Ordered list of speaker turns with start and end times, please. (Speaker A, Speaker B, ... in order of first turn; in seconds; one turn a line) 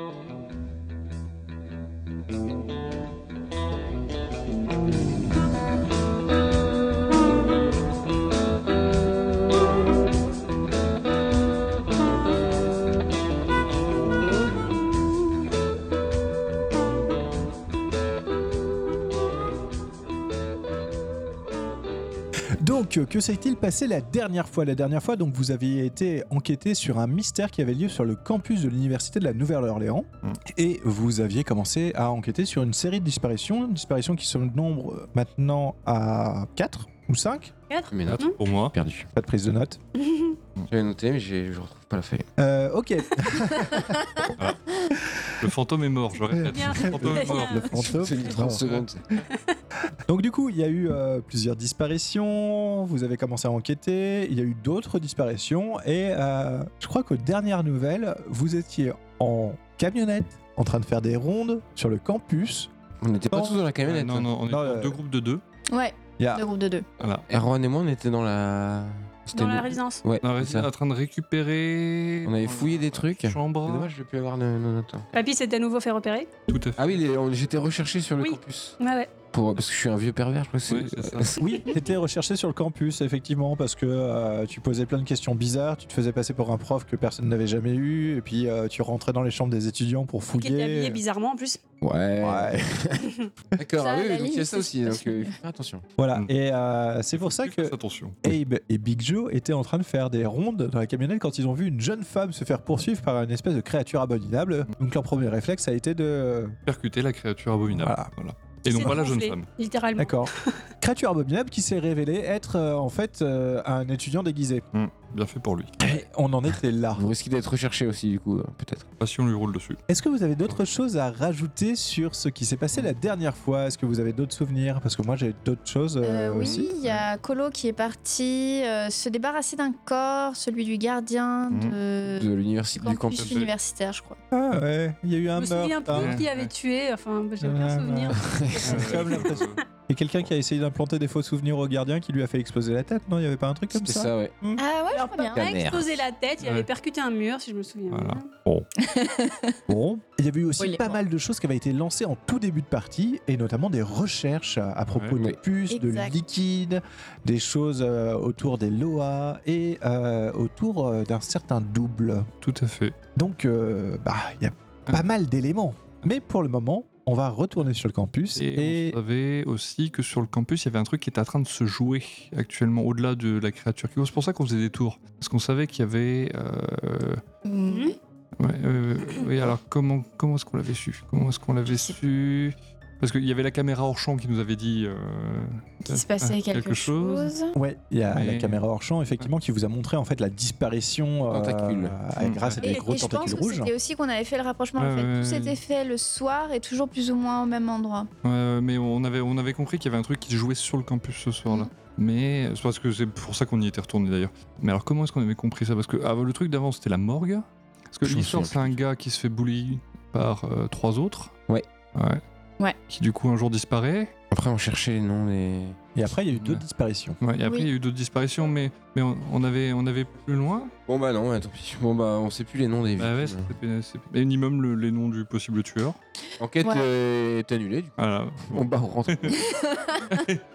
Speaker A: 22.6-37.5
Speaker B: 37.7-38.4
Speaker C: 37.9-39.1
Speaker D: 38.0-38.7
Speaker A: 39.1-39.8
Speaker B: 40.0-40.4
Speaker C: 40.7-42.3
Speaker A: 42.4-44.3
Speaker A: 44.9-45.5
Speaker D: 45.4-47.7
Speaker A: 46.3-48.7
Speaker B: 46.5-48.5
Speaker C: 47.8-49.0
Speaker D: 48.5-48.9
Speaker A: 50.0-62.7
Speaker C: 63.0-64.3
Speaker A: 63.3-63.6
Speaker D: 63.8-65.4
Speaker A: 64.5-65.0
Speaker E: 65.7-66.8
Speaker A: 66.2-66.4
Speaker D: 67.0-67.3
Speaker C: 67.3-70.7
Speaker B: 69.3-70.0
Speaker D: 70.2-73.9
Speaker C: 72.2-75.1
Speaker B: 75.1-76.3
Speaker D: 76.5-77.0
Speaker C: 76.8-78.8
Speaker B: 78.2-79.1
Speaker C: 79.3-81.7
Speaker D: 80.7-81.4
Speaker A: 81.4-91.0
Speaker B: 90.4-91.6
Speaker C: 91.8-95.8
Speaker A: 92.2-92.8
Speaker E: 93.8-95.4
Speaker A: 96.0-106.6
Speaker D: 97.1-98.2
Speaker D: 106.7-109.5
Speaker A: 107.7-108.1
Speaker B: 108.7-110.7
Speaker A: 110.0-114.6
Speaker D: 114.7-115.9
Speaker A: 115.8-117.0
Speaker C: 116.9-118.9
Speaker D: 119.0-119.8
Speaker A: 119.9-126.7
Speaker E: 126.0-134.2
Speaker C: 126.4-126.7
Speaker D: 131.5-131.8
Speaker C: 132.1-133.5
Speaker D: 133.1-133.5
Speaker A: 134.3-136.2
Speaker B: 135.3-138.2
Speaker D: 135.9-136.5
Speaker A: 137.4-144.6
Speaker C: 138.2-139.2
Speaker D: 138.6-139.6
Speaker B: 139.0-139.6
Speaker C: 143.7-144.3
Speaker E: 144.6-145.6
Speaker B: 144.9-148.3
Speaker C: 145.3-146.0
Speaker D: 146.4-146.7
Speaker D: 147.9-148.7
Speaker E: 148.8-149.6
Speaker A: 149.7-162.3
Speaker E: 150.6-151.0
Speaker D: 154.9-155.2
Speaker E: 155.7-156.1
Speaker D: 162.4-162.9
Speaker A: 163.2-169.0
Speaker D: 168.4-177.2
Speaker E: 177.4-177.9
Speaker B: 177.7-177.9
Speaker D: 178.4-187.3
Speaker E: 181.7-182.0
Speaker E: 185.8-187.6
Speaker A: 187.5-193.7
Speaker D: 188.1-188.6
Speaker C: 191.3-191.9
Speaker D: 192.2-192.6
Speaker E: 192.6-198.1
Speaker B: 192.6-193.2
Speaker D: 194.8-195.6
Speaker D: 198.2-211.3
Speaker C: 208.0-208.7
Speaker D: 211.9-212.2
Speaker D: 212.9-214.1
Speaker C: 214.3-215.8
Speaker A: 215.9-217.2
Speaker D: 216.3-216.6
Speaker D: 217.2-220.7
Speaker E: 217.4-217.7
Speaker C: 220.9-223.5
Speaker D: 223.0-226.0
Speaker C: 226.4-229.5
Speaker E: 226.6-226.9
Speaker D: 228.0-229.4
Speaker E: 229.3-230.2
Speaker D: 230.1-230.4